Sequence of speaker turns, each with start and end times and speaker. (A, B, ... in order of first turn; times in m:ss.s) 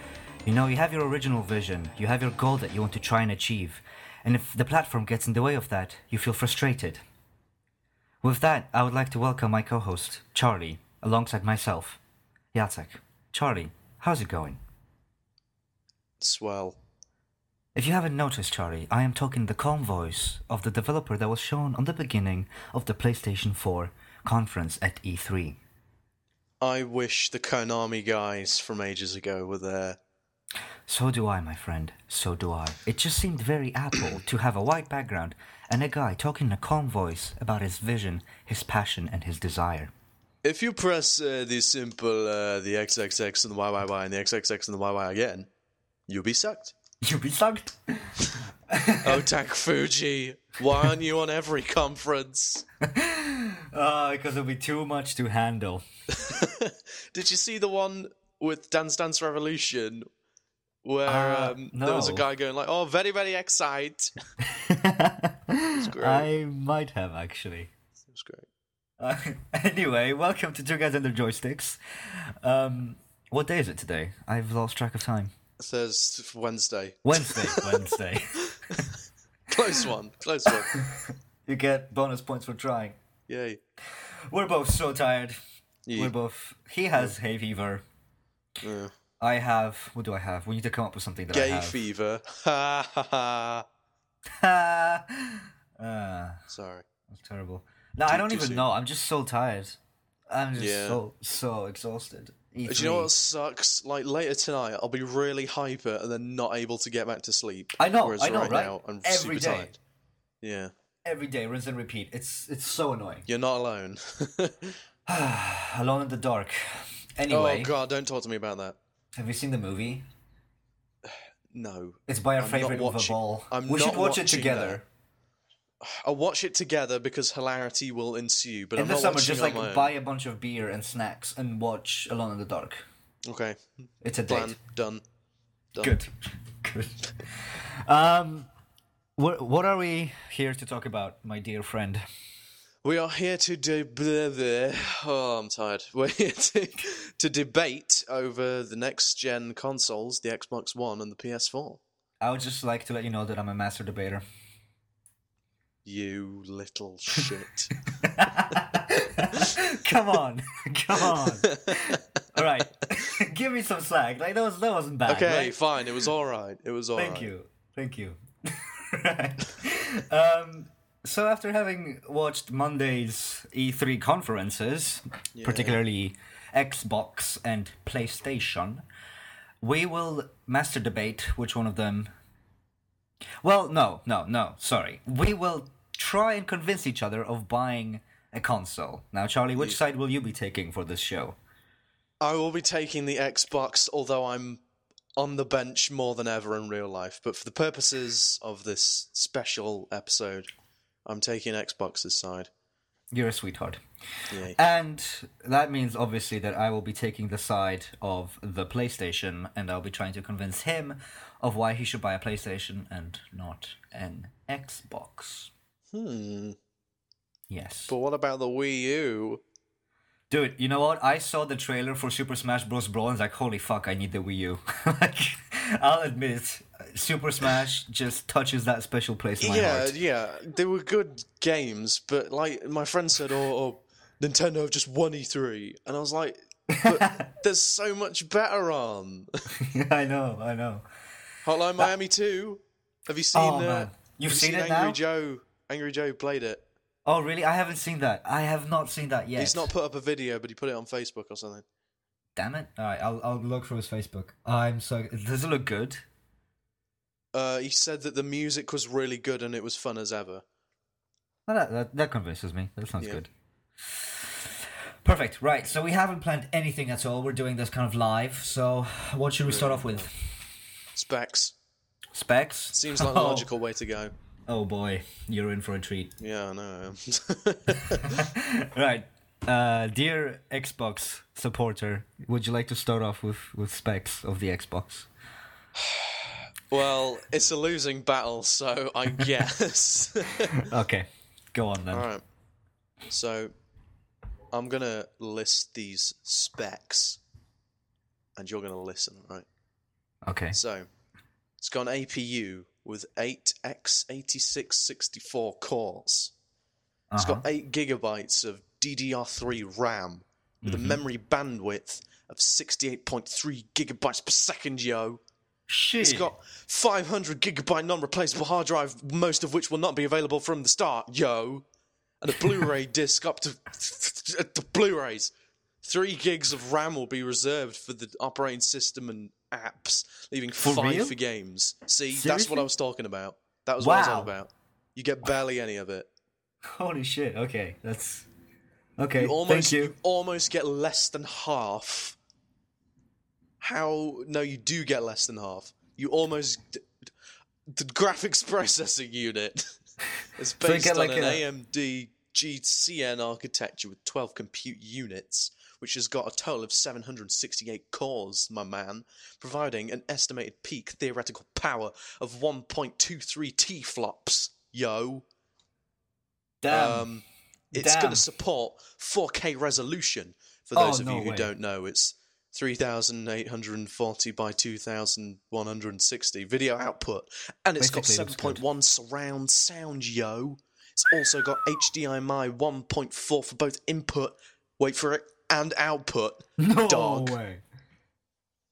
0:00.4-0:07.0 A
0:08.2-0:12.0 A
0:12.5-0:14.6 A
0:16.2-0:16.8 B
0:17.7-0:25.6 A
0:26.6-0:30.0 B
0:30.9-0:39.9 A
0:40.4-0:45.5 B
0:46.1-0:46.8 B
0:47.0-0:48.2 A
0:48.7-0:49.2 A
0:49.0-0:52.6 B
0:52.8-0:55.8 A
0:56.1-1:00.1 B
1:00.8-1:04.1 B
1:01.0-1:02.2 A
1:04.4-1:07.7 A
1:05.7-1:06.3 B
1:08.1-1:08.5 B
1:09.0-1:15.3 A
1:15.6-1:17.7 B
1:17.0-1:18.8 A
1:18.4-1:18.9 B
1:19.5-1:20.8 B
1:20.5-1:23.0 A
1:23.3-1:23.6 B
1:24.0-1:25.4 A
1:25.8-1:26.1 B
1:25.9-1:27.8 A
1:28.6-1:28.9 B
1:29.2-1:31.8 A
1:31.3-1:33.6 B
1:34.3-1:36.4 A
1:36.5-1:36.8 B
1:37.1-1:39.8 A
1:38.1-1:38.6 B
1:40.3-1:43.1 A
1:40.6-1:41.0 B
1:42.6-1:49.8 B
1:47.8-1:49.7 A
1:50.4-1:50.7 B
1:51.0-1:53.2 A
1:53.3-1:54.7 B
1:55.1-1:57.7 A
1:57.3-1:58.8 B
1:59.1-2:00.0 A
2:01.5-2:04.8 B
2:02.1-2:04.8 A
2:05.8-2:09.9 B
2:08.8-2:12.8 A
2:13.3-2:15.0 B
2:14.0-2:14.6 A
2:15.8-2:18.5 A
2:19.2-2:22.0 A
2:22.8-2:31.8 B
2:32.2-2:34.2 A
2:35.8-2:37.7 B
2:38.0-2:46.0 A
2:41.0-2:42.0 B
2:45.1-2:47.3 B
2:47.0-2:58.8 A
2:55.3-2:55.8 B
2:59.6-3:02.1 A
3:03.4-3:11.4 A
3:12.2-3:14.6 B
3:15.2-3:20.5 B
3:21.1-3:22.5 B
3:23.1-3:23.8 A
3:24.3-3:24.6 B
3:24.5-3:35.5 A
3:35.9-3:36.6 B
3:37.5-3:37.9 A
3:37.9-3:39.4 B
3:40.3-3:49.9 A
3:49.4-3:59.5 B
3:56.7-3:57.2 A
3:59.5-4:00.8 A
4:01.4-4:06.6 B
4:03.3-4:05.0 A
4:07.0-4:09.7 A
4:09.4-4:11.6 B
4:12.4-4:16.0 A
4:17.3-4:20.4 B
4:21.5-4:23.3 A
4:23.9-4:24.5 A
4:25.0-4:30.1 A
4:29.4-4:30.1 B
4:30.9-4:31.5 B
4:32.1-4:33.5 A
4:32.7-4:34.1 B
4:34.5-4:36.1 A
4:36.2-4:38.2 B
4:37.9-4:45.1 A
4:45.8-4:50.6 B
4:50.5-4:52.1 A
4:51.9-4:52.2 B
4:53.1-4:53.5 B
4:54.5-4:57.2 B
4:58.4-4:59.4 B
5:00.2-5:00.6 A
5:00.5-5:00.9 B
5:01.6-5:06.3 B
5:07.1-5:07.4 A
5:07.2-5:15.2 B
5:10.6-5:11.0 A
5:15.7-5:16.3 A
5:16.0-5:21.6 B
5:22.2-5:36.1 B
5:30.6-5:31.1 A
5:32.1-5:32.7 A
5:33.8-5:34.3 A
5:36.6-5:38.3 A
5:39.0-5:39.9 A
5:39.2-5:42.2 B
5:43.6-5:46.8 B
5:47.7-5:49.8 B
5:50.4-6:05.3 B
5:50.6-5:51.4 A
6:06.6-6:07.1 A
6:06.7-6:27.4 B
6:07.7-6:08.2 A
6:10.7-6:11.5 A
6:17.8-6:18.6 A
6:26.6-6:27.6 A